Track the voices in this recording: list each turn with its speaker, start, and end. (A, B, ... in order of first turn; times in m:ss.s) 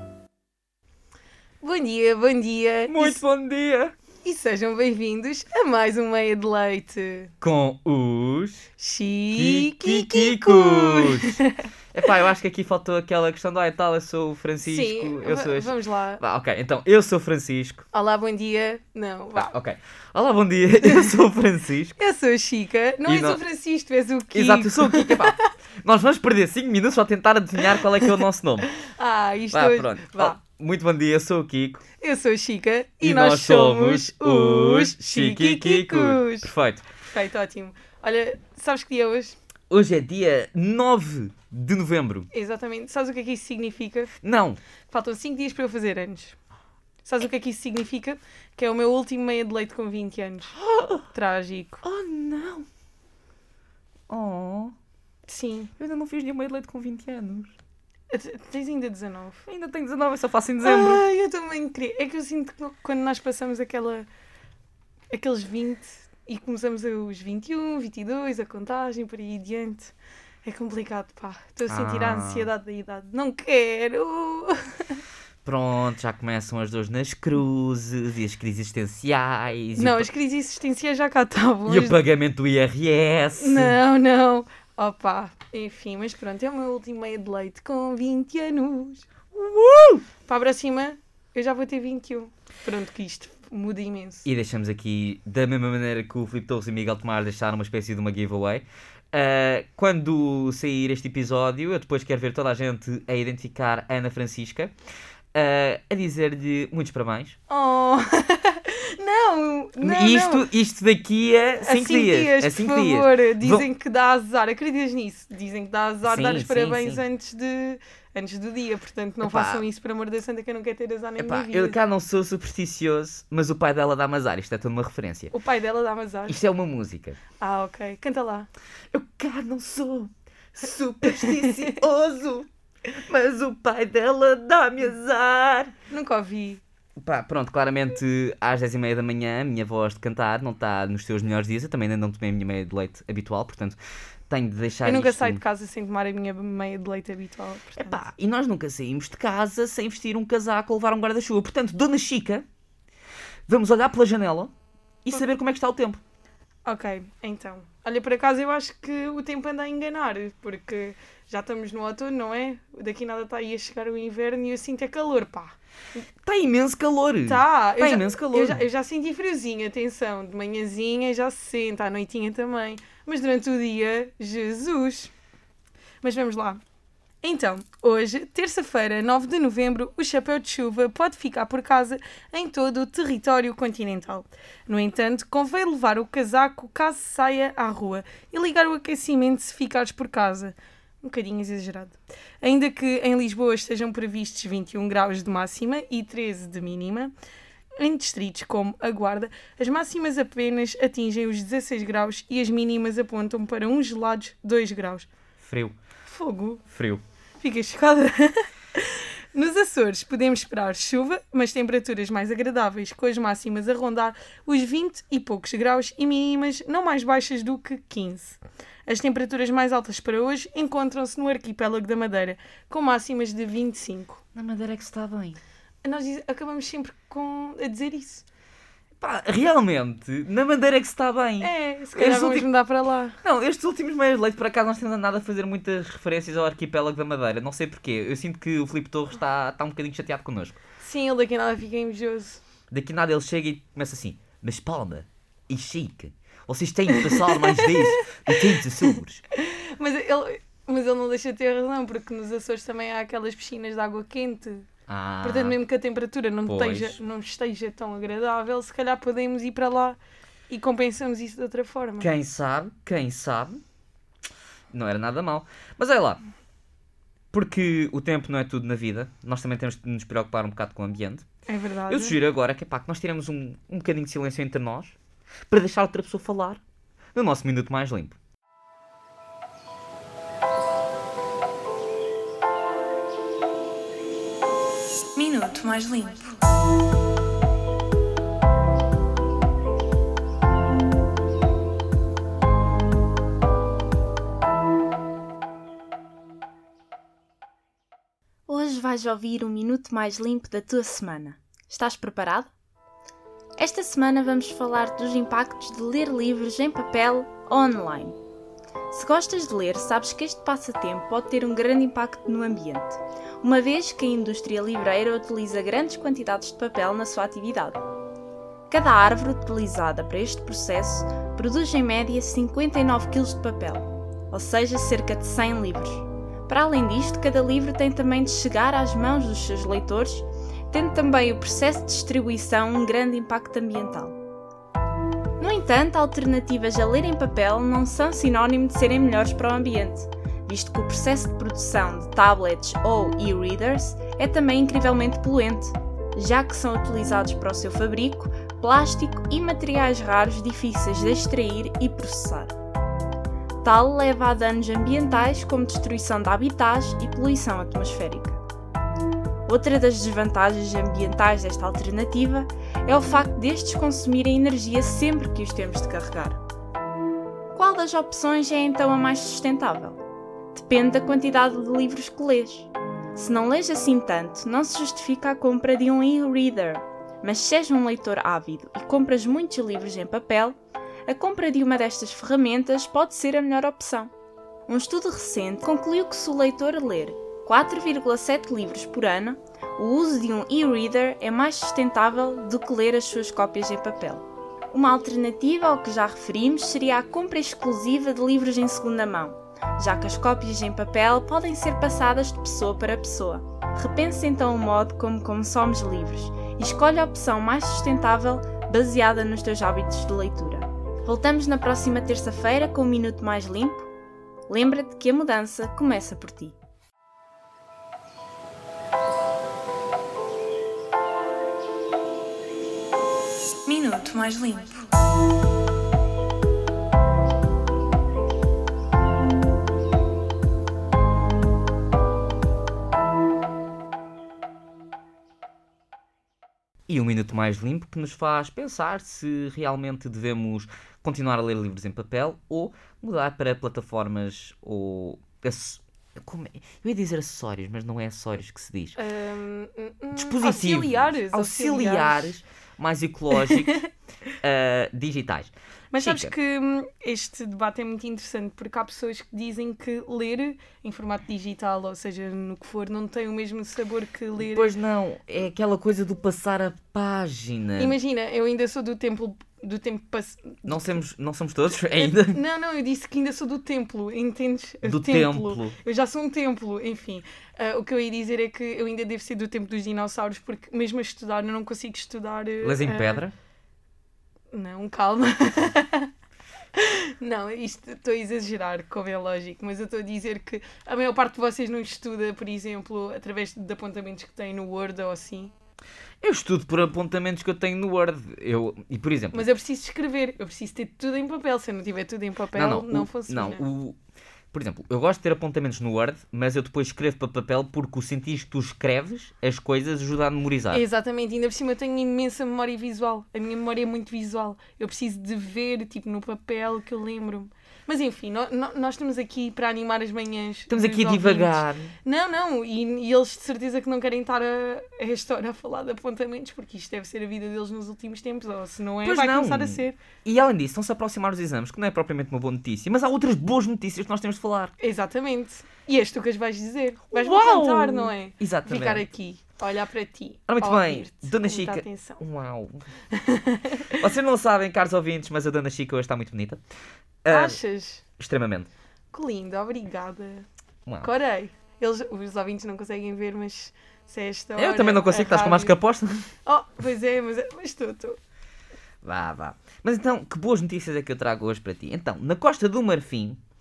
0:01.6-0:03.2 A
0:02.9-0:03.9 B
0:04.2-0:07.3 A
0:07.4-0:08.7 B
0:08.8-0:11.7 A
0:09.3-0:11.4 B
0:11.9-0:17.9 B
0:14.7-0:16.2 A
0:17.9-0:19.5 A
0:19.4-0:22.0 B
0:20.8-0:21.1 A
0:22.0-0:25.5 A
0:23.1-0:23.4 B
0:24.3-0:28.7 B
0:27.8-0:28.1 A
0:28.8-0:30.4 A
0:29.5-0:31.8 B
0:32.0-0:36.5 A
0:33.0-0:36.8 B
0:37.0-0:39.4 A
0:39.7-0:42.3 B
0:42.3-0:44.1 A
0:44.2-0:44.6 B
0:44.9-0:46.4 A
0:47.0-0:50.6 A
0:50.6-0:51.1 B
0:51.1-0:51.8 A
0:51.8-0:52.7 B
0:54.1-0:54.7 B
0:55.3-0:55.7 A
0:55.8-0:57.5 B
0:58.1-0:59.5 A
0:59.5-1:01.0 B
1:00.6-1:04.1 A
1:05.1-1:09.9 A
1:10.4-1:15.0 A
1:11.7-1:12.5 B
1:15.4-1:20.1 B
1:19.8-1:22.0 A
1:21.7-1:23.8 B
1:23.4-1:29.1 A
1:29.3-1:30.0 B
1:30.3-1:34.3 A
1:34.2-1:44.7 B
1:45.3-1:47.4 B
1:47.5-1:50.5 A
1:49.8-1:53.7 B
1:51.6-2:01.8 A
1:56.0-1:57.0 B
1:59.2-1:59.6 B
2:01.2-2:05.3 B
2:05.3-2:06.4 A
2:06.3-2:07.2 B
2:07.4-2:08.5 A
2:08.9-2:15.8 B
2:11.2-2:11.8 A
2:15.9-2:16.6 A
2:17.0-2:23.8 B
2:24.3-2:25.4 B
2:24.8-2:28.0 A
2:27.8-2:32.4 B
2:33.5-2:34.5 B
2:35.0-2:36.0 B
2:36.6-2:45.6 A
2:46.2-2:48.6 B
2:47.2-2:55.1 A
2:56.0-2:56.6 A
2:57.2-3:17.1 A
3:17.8-3:25.1 A
3:25.4-3:25.8 B
3:26.1-3:26.6 A
3:26.7-3:27.0 B
3:27.4-3:44.2 A
3:44.4-3:45.4 B
3:45.8-3:48.2 A
3:49.0-3:52.5 B
3:51.4-3:53.2 A
3:53.2-4:00.6 B
4:00.8-4:02.4 A
4:02.7-4:09.2 B
4:06.9-4:14.7 A
4:14.9-4:15.6 B
4:15.2-4:20.0 A
4:16.5-4:17.0 B
4:20.5-4:22.1 A
4:22.0-4:23.6 B
4:24.7-4:26.2 B
4:27.3-4:31.3 B
4:31.5-4:32.2 A
4:31.9-4:35.0 B
4:35.5-4:36.6 B
4:37.2-4:38.2 B
4:45.2-4:46.3 C
4:58.5-5:02.5 C
5:03.6-5:08.2 C
5:08.9-5:17.8 C
5:18.7-5:34.2 C
5:35.4-5:52.6 C
5:53.6-5:58.4 C
5:59.5-6:06.4 C
6:07.5-6:10.0 C
6:10.5-6:24.1 C
6:24.7-6:53.9 C
6:54.5-6:56.6 C
7:03.7-7:04.8 C
7:16.9-7:29.0 B
7:29.0-7:32.3 A
7:30.2-7:33.8 B
7:33.3-7:33.9 A
7:34.4-7:36.3 B
7:35.9-7:44.7 A
7:44.4-7:48.0 B
7:47.8-7:51.0 A
7:50.7-7:52.4 B
7:52.0-8:03.2 A
7:54.8-7:55.8 B
8:02.6-8:03.3 B
8:04.5-8:06.1 A
8:06.7-8:15.5 A
8:16.2-8:19.5 B
8:19.3-8:23.6 A
8:22.5-8:24.0 B
8:24.5-8:30.8 B
8:30.7-8:50.0 A
8:40.7-8:41.9 B
8:49.0-8:54.7 B
8:54.8-9:02.2 A
8:57.1-8:59.0 B
9:00.5-9:02.8 B
9:03.1-9:04.0 A
9:04.0-9:06.6 B
9:07.2-9:07.6 B
9:07.3-9:08.0 A
9:08.2-9:08.7 B
9:09.1-9:10.5 A
9:11.0-9:15.8 A
9:14.6-9:16.3 B
9:16.4-9:18.2 A
9:19.0-9:23.4 B